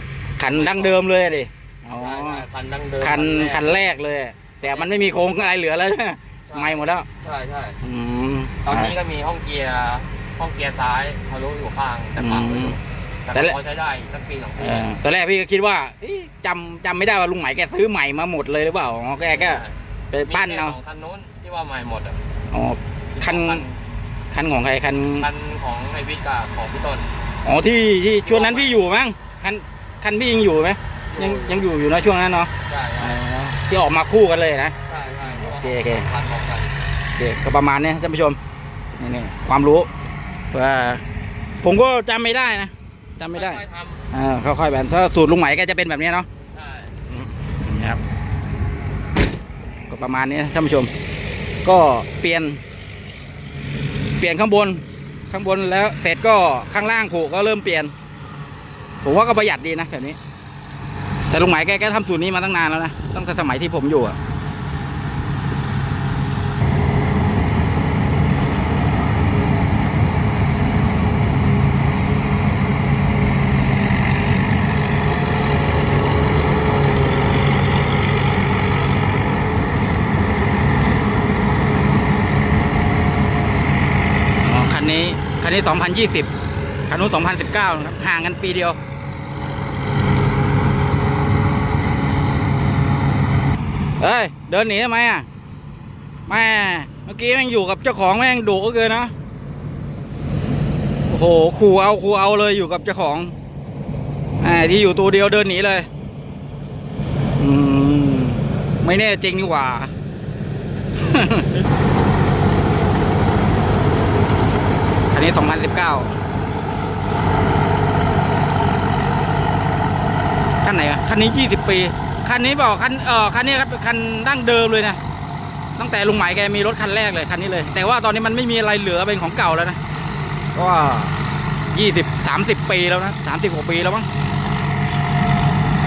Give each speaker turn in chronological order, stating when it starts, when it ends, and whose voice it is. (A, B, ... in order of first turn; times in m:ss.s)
0:00.4-0:02.4 A
0:00.4-0:01.0 B
0:02.0-0:03.8 B
0:03.0-0:07.0 A
0:04.6-0:05.5 B
0:06.5-0:07.8 B
0:07.8-0:09.0 A
0:08.6-0:15.0 B
0:12.2-0:12.8 A
0:14.6-0:20.8 A
0:19.3-0:22.2 B
0:22.5-0:23.6 A
0:23.1-0:23.8 B
0:24.3-0:25.3 A
0:25.2-0:27.1 B
0:27.4-0:34.7 A
0:28.2-0:28.8 B
0:31.1-0:31.7 B
0:32.6-0:33.2 B
0:34.9-0:36.7 B
0:35.3-0:36.0 A
0:37.1-0:38.4 A
0:39.0-0:39.9 A
0:40.5-0:41.0 A
0:41.6-0:43.6 A
0:43.3-0:44.0 B
0:44.1-0:46.3 A
0:46.5-0:46.9 B
0:47.1-0:48.0 A
0:49.9-0:50.9 A
0:51.6-0:52.6 A
0:54.2-0:57.9 A
0:59.0-1:00.2 A
1:01.3-1:04.2 A
1:24.4-1:26.3 A
1:26.9-1:28.8 A
1:34.0-1:35.2 A
1:36.3-1:39.1 A
1:41.1-1:43.3 A
1:44.4-1:45.9 A
1:47.4-1:49.9 A
1:51.0-1:51.6 A
1:55.1-1:56.1 A
2:00.6-2:05.0 A
2:05.8-2:09.8 A
2:10.5-2:11.1 A
2:11.7-2:14.1 A